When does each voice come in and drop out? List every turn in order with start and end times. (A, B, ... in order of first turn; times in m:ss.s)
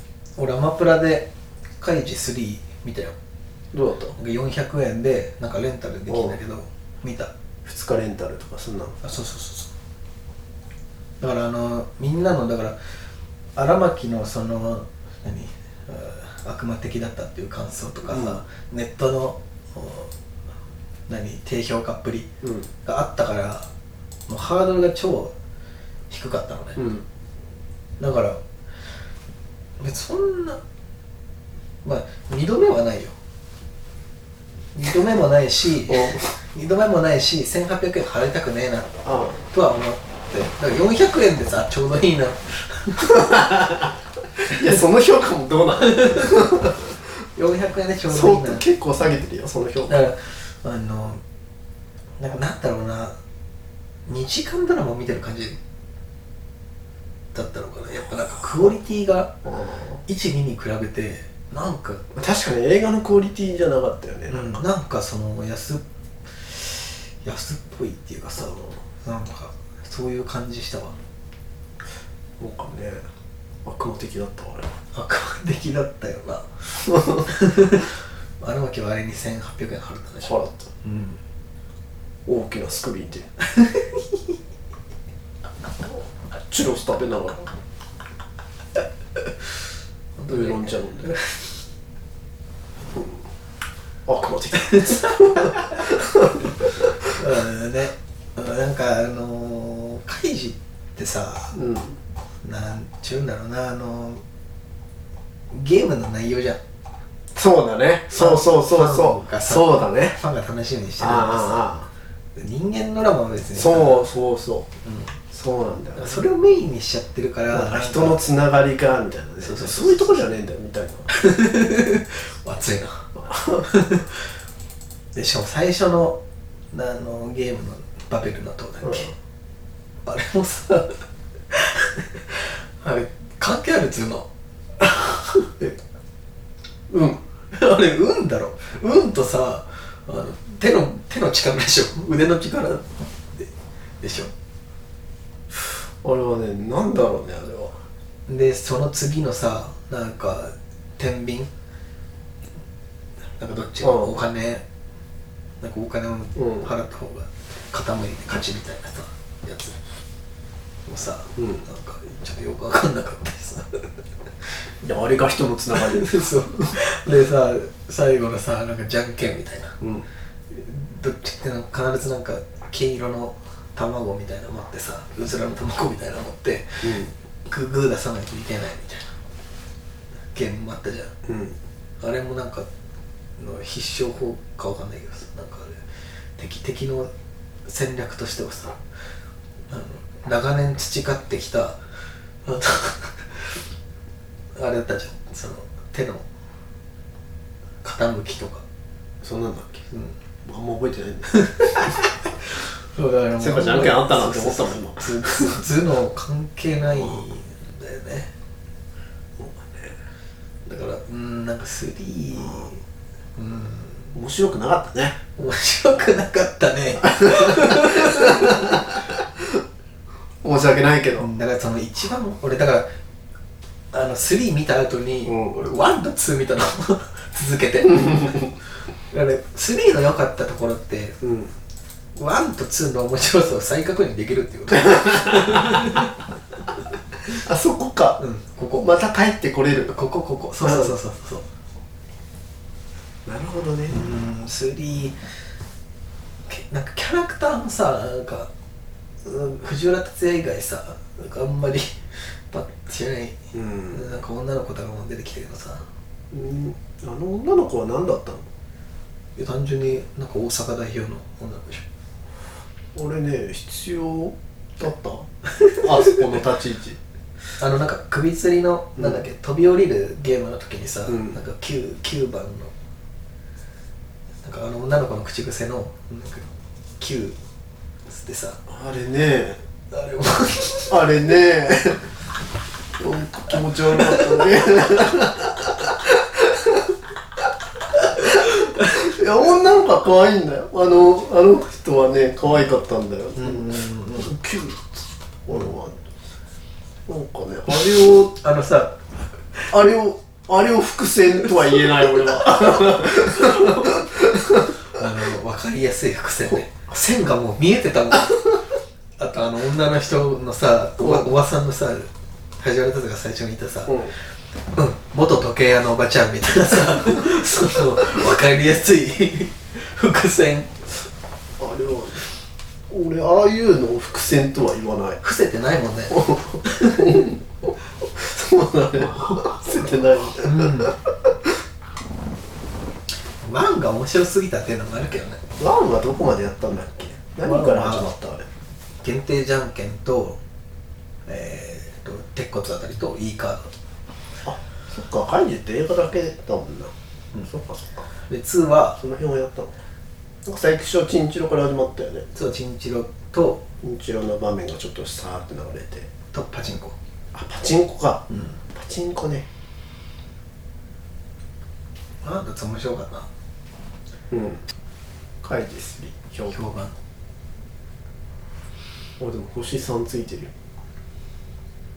0:00.4-0:01.3 A
0:01.8-0:03.1 A
0:03.7-0:04.2 B
0:04.1-0:07.3 A
0:06.1-0:06.4 B
0:07.6-0:09.0 B
0:09.0-0:09.7 A
0:11.2-0:13.0 A
0:13.6-0:20.1 A
0:18.0-0:18.4 B
0:21.1-0:22.3 A
0:22.4-0:22.7 B
0:22.8-0:23.7 A
0:24.3-0:25.3 A
0:26.1-0:26.8 A
0:26.8-0:27.0 B
0:28.0-0:28.4 A
0:29.8-0:30.6 A
0:31.8-0:33.2 A
0:34.7-0:43.5 A
0:35.9-0:36.3 B
0:39.0-0:39.4 B
0:43.2-0:43.9 B
0:44.4-0:46.9 B
0:45.8-0:46.3 A
0:47.3-0:48.7 A
0:48.1-0:50.0 B
0:49.9-0:51.2 A
0:52.2-0:53.2 A
0:54.1-0:55.6 A
0:57.3-0:59.4 A
0:59.4-1:00.0 B
1:00.0-1:02.0 A
1:02.1-1:04.6 B
1:04.3-1:11.0 A
1:12.4-1:13.0 B
1:13.6-1:14.7 B
1:14.9-1:21.2 A
1:16.9-1:17.2 B
1:20.2-1:20.7 B
1:22.2-1:23.3 B
1:23.5-1:24.2 A
1:26.5-1:27.5 B
1:30.2-1:31.6 A
1:30.3-1:31.1 B
1:34.0-1:36.6 B
1:34.7-1:35.6 A
1:36.9-1:41.6 A
1:41.5-1:42.0 B
1:42.4-1:44.2 A
1:45.5-1:46.6 A
1:47.3-1:50.2 B
1:48.2-1:51.6 A
1:51.0-1:51.9 B
1:52.3-1:54.1 A
1:53.5-1:54.7 B
1:54.8-1:55.2 A
1:55.3-1:56.3 B
1:55.9-1:58.3 A
1:57.5-2:01.1 B
1:59.4-2:00.3 A
2:01.1-2:04.2 A
2:03.2-2:03.6 B
2:05.1-2:06.2 A
2:06.7-2:09.1 A
2:10.0-2:15.7 A
2:16.9-2:17.2 B
2:17.5-2:24.3 A
2:25.5-2:27.8 B
2:28.3-2:31.5 A
2:33.4-2:34.6 A
2:33.8-2:34.1 B
2:35.6-2:39.8 A
2:36.4-2:36.7 B
2:40.9-2:43.8 A
2:41.4-2:41.6 B
2:44.8-2:46.3 B
2:45.8-2:49.8 A
2:49.8-2:50.0 B
2:50.5-2:56.9 A
2:56.8-2:57.1 B
2:57.4-2:59.2 A
3:00.3-3:01.1 A
3:01.2-3:01.6 B
3:02.0-3:02.7 A
3:03.4-3:05.8 A
3:06.4-3:07.1 A
3:07.6-3:08.8 A
3:09.7-3:11.8 A
3:12.4-3:13.6 A
3:14.6-3:16.2 A
3:17.8-3:18.6 A
3:19.2-3:19.9 B
3:20.4-3:21.6 B
3:21.3-3:22.1 A
3:22.6-3:28.3 A
3:23.4-3:25.6 B
3:29.4-3:30.0 B
3:30.6-3:32.8 A
3:33.4-3:34.1 A
3:34.1-3:35.2 B
3:35.4-3:39.0 A
3:37.2-3:39.2 B
3:40.4-3:41.3 B
3:41.2-3:42.9 A
3:43.9-3:48.5 A
3:45.2-3:45.6 B
3:48.0-3:48.4 B
3:49.1-3:51.2 A
3:51.2-3:51.5 B
3:52.1-3:56.2 A
3:57.3-3:58.2 B
3:58.2-3:58.9 A
3:58.8-4:00.0 B
3:59.9-4:01.5 A
4:00.6-4:00.9 B
4:03.2-4:04.0 B
4:03.9-4:05.2 A
4:06.5-4:08.5 A
4:09.2-4:13.4 A
4:13.5-4:14.0 B
4:13.9-4:15.8 A
4:16.3-4:18.5 B
4:19.4-4:21.8 A
4:22.9-4:27.0 B
4:27.6-4:32.7 A
4:31.1-4:31.4 B
4:34.4-4:37.4 A
4:38.0-4:38.6 A
4:38.7-4:39.6 B
4:39.9-4:41.0 A
4:40.9-4:42.0 B
4:43.0-4:46.8 B
4:48.9-4:56.0 B
4:53.4-4:54.3 A
4:57.1-4:58.3 B
4:57.7-4:59.7 A
4:59.7-5:04.7 B
5:01.5-5:03.8 A
5:04.8-5:08.6 A
5:09.2-5:20.8 A
5:11.0-5:11.3 B
5:13.9-5:14.1 B
5:21.6-5:22.3 B
5:22.9-5:25.2 B
5:25.2-5:27.2 A
5:26.1-5:31.3 B
5:30.3-5:30.9 A
5:33.4-5:35.4 A
5:35.6-5:38.5 B
5:37.4-5:38.1 A
5:39.0-5:40.4 A
5:41.2-5:43.7 A
5:44.4-5:48.1 B
5:48.3-5:49.0 A
5:49.0-5:49.7 B
5:50.4-5:52.3 B
5:52.3-5:53.6 A
5:53.8-5:56.1 B
5:56.3-5:57.0 A
5:57.3-5:59.5 B
5:58.3-5:58.6 A
6:02.2-6:03.3 A
6:04.3-6:04.6 B
6:05.4-6:06.6 B
6:06.5-6:06.9 A
6:09.2-6:10.5 B